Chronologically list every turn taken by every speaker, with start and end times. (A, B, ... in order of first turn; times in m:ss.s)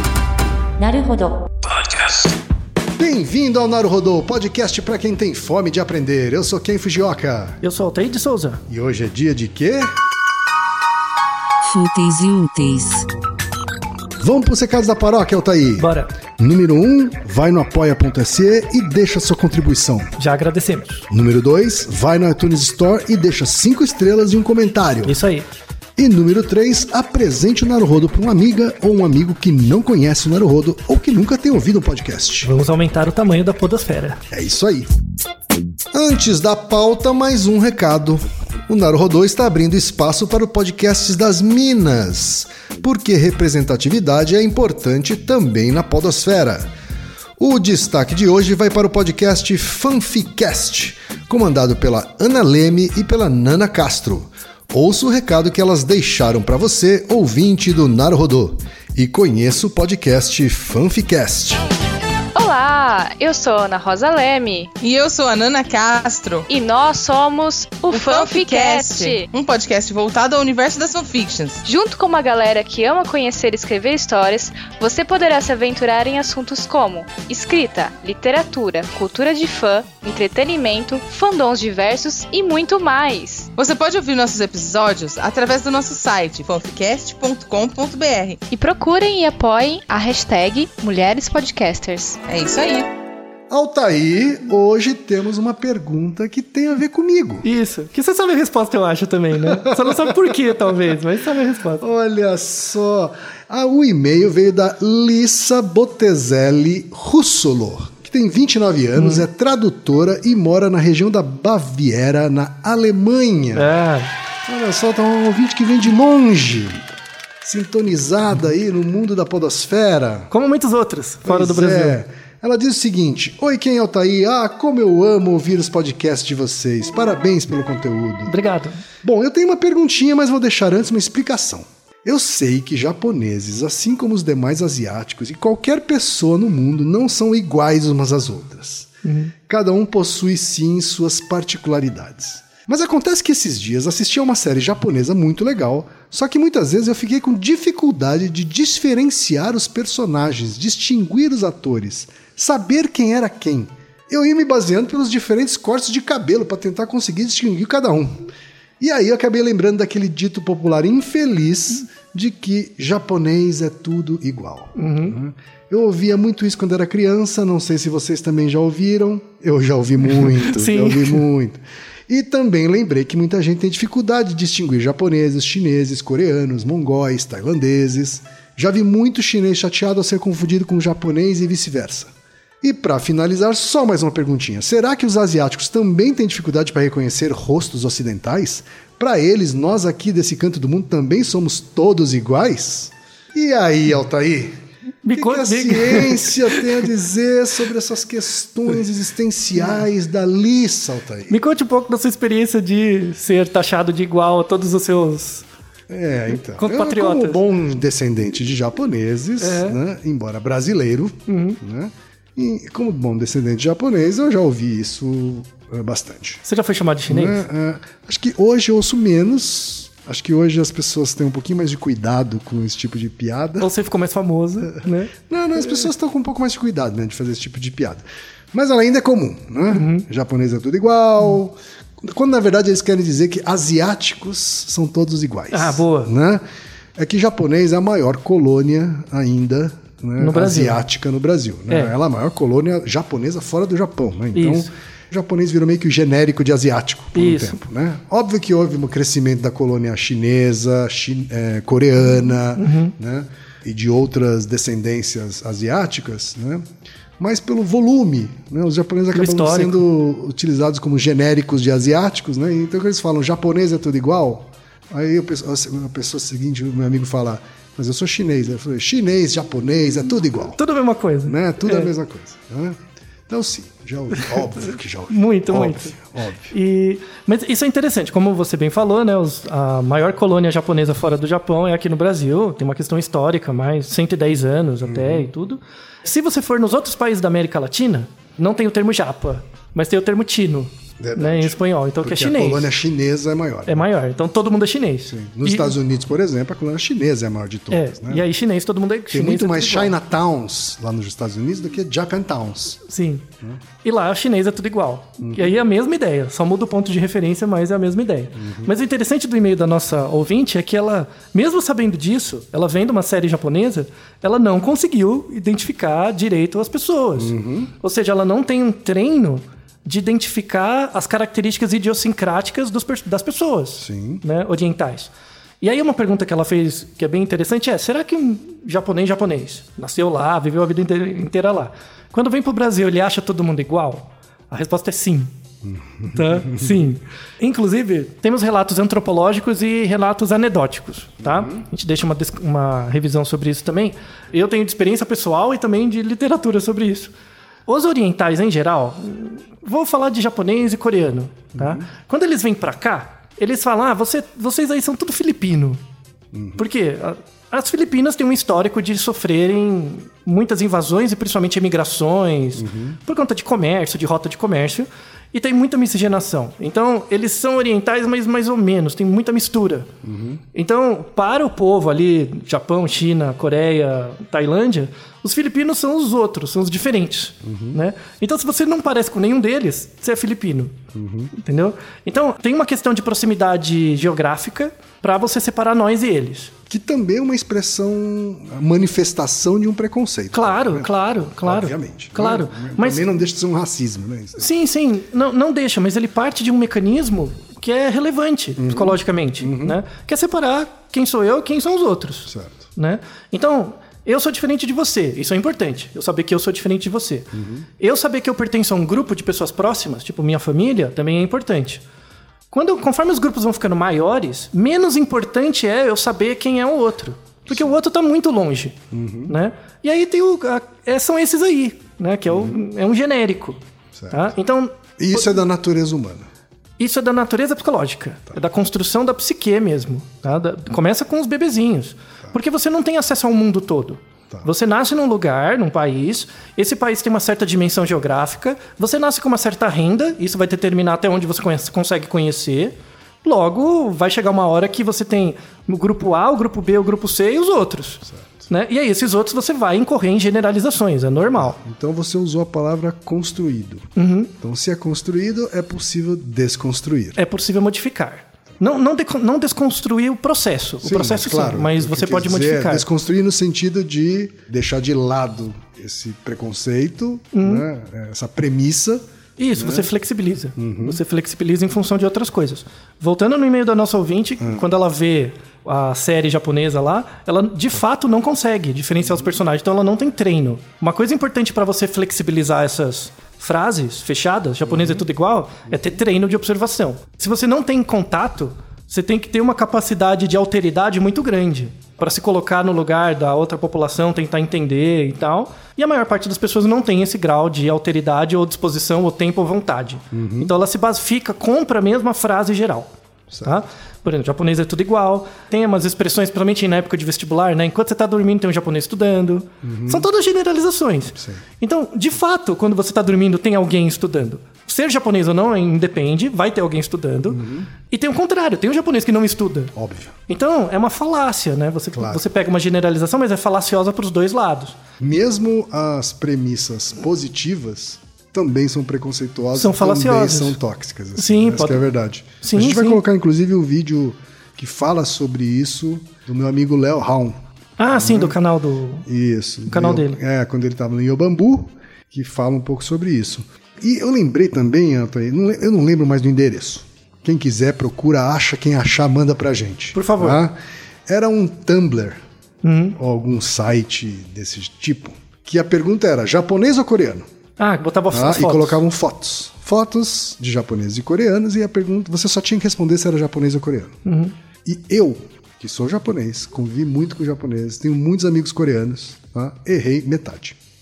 0:00.8-0:01.4 A
0:03.0-0:07.6 B
0:07.6-0:08.6 C
0:08.7-0:09.9 B
0:11.6-0:13.1 A
0:14.2-0:20.1 B
0:15.8-0:16.1 C
0:20.2-0:21.1 C
0:21.1-0:25.2 B
0:25.0-0:25.5 C
0:26.0-0:32.5 B
0:32.4-0:34.2 C
0:34.3-0:35.0 B
0:35.9-0:46.7 B
0:47.4-1:01.6 B
1:02.4-1:04.7 D
1:04.8-1:06.5 E
1:06.5-1:09.3 D
1:07.9-1:11.6 E
1:11.6-1:23.5 D
1:23.6-1:28.4 E
1:28.5-1:32.2 D
1:32.3-1:32.9 E
1:33.5-1:37.5 B
1:37.4-1:41.8 C
1:39.4-1:40.3 B
1:41.8-1:53.7 B
1:49.0-1:49.2 C
1:53.5-1:54.1 C
1:54.5-1:56.8 B
1:57.4-2:00.3 B
2:00.3-2:02.0 C
2:01.2-2:08.4 B
2:08.3-2:08.8 C
2:09.0-2:18.9 B
2:19.0-2:19.3 C
2:19.5-2:38.2 B
2:38.8-3:14.6 B
2:44.8-2:45.2 C
2:50.2-2:51.2 C
3:15.0-3:16.8 C
3:15.1-3:21.4 B
3:21.3-3:25.4 C
3:25.9-3:36.4 B
3:26.6-3:27.4 C
3:29.4-3:29.8 C
3:31.3-3:31.6 C
3:36.5-3:37.4 C
3:37.1-3:43.7 B
3:43.6-3:45.9 C
3:44.6-3:56.4 B
3:49.7-3:50.1 C
3:55.5-3:56.1 C
3:57.0-4:16.7 B
4:00.2-4:00.8 C
4:04.3-4:04.7 C
4:07.2-4:07.6 C
4:12.6-4:12.9 C
4:17.2-4:30.6 B
4:19.1-4:19.8 C
4:30.6-4:31.9 C
4:31.2-4:36.5 B
4:35.1-4:36.0 C
4:36.5-4:52.7 C
4:44.8-4:45.3 B
4:51.0-4:53.8 B
4:53.7-4:55.8 C
4:55.1-4:58.3 B
4:57.7-4:59.9 C
4:59.1-5:02.8 B
5:02.9-5:03.3 C
5:03.8-5:35.3 C
5:05.2-5:05.6 B
5:08.4-5:08.7 B
5:17.2-5:17.7 B
5:23.8-5:24.2 B
5:35.6-5:36.8 B
5:36.1-5:47.1 C
5:41.2-5:41.7 B
5:47.7-5:55.8 C
5:51.6-5:51.8 B
5:56.3-5:56.6 B
5:56.6-6:09.9 C
6:02.6-6:03.0 B
6:10.0-6:10.4 B
6:10.5-6:20.8 C
6:17.4-6:17.8 B
6:20.9-6:21.3 B
6:21.3-6:26.5 C
6:26.7-6:34.5 B
6:30.3-6:33.0 C
6:34.4-6:51.8 C
6:38.6-6:39.8 B
6:42.3-6:42.6 B
6:47.3-6:47.7 B
6:52.5-7:03.6 C
6:57.5-6:57.8 B
6:58.9-6:59.4 B
7:02.3-7:02.6 B
7:04.0-7:04.3 B
7:04.1-7:05.2 C
7:05.0-7:06.3 B
7:06.8-7:31.6 C
7:28.1-7:28.3 B
7:31.4-7:37.2 B
7:34.0-7:34.3 C
7:37.2-7:42.8 C
7:40.8-7:49.9 B
7:47.3-7:47.6 C
7:49.4-8:22.9 C
7:50.6-7:51.0 B
8:04.6-8:05.0 B
8:05.7-8:05.9 B
8:20.1-8:20.5 B
8:23.3-8:23.6 B
8:23.4-8:39.7 C
8:29.6-8:30.1 B
8:31.2-8:31.4 B
8:37.3-8:37.7 B
8:39.8-8:40.2 B
8:40.3-8:44.8 C
8:41.9-8:42.2 B
8:45.0-8:58.4 B
8:49.6-8:50.6 C
8:51.2-8:51.8 C
8:52.4-8:53.0 C
8:57.8-8:59.1 C
8:59.0-9:12.2 B
8:59.7-9:00.2 C
9:09.9-9:10.4 C
9:12.6-9:13.0 C
9:13.0-9:17.3 B
9:17.6-9:18.8 C
9:18.1-9:24.0 B
9:24.0-9:24.3 C
9:24.6-9:30.6 B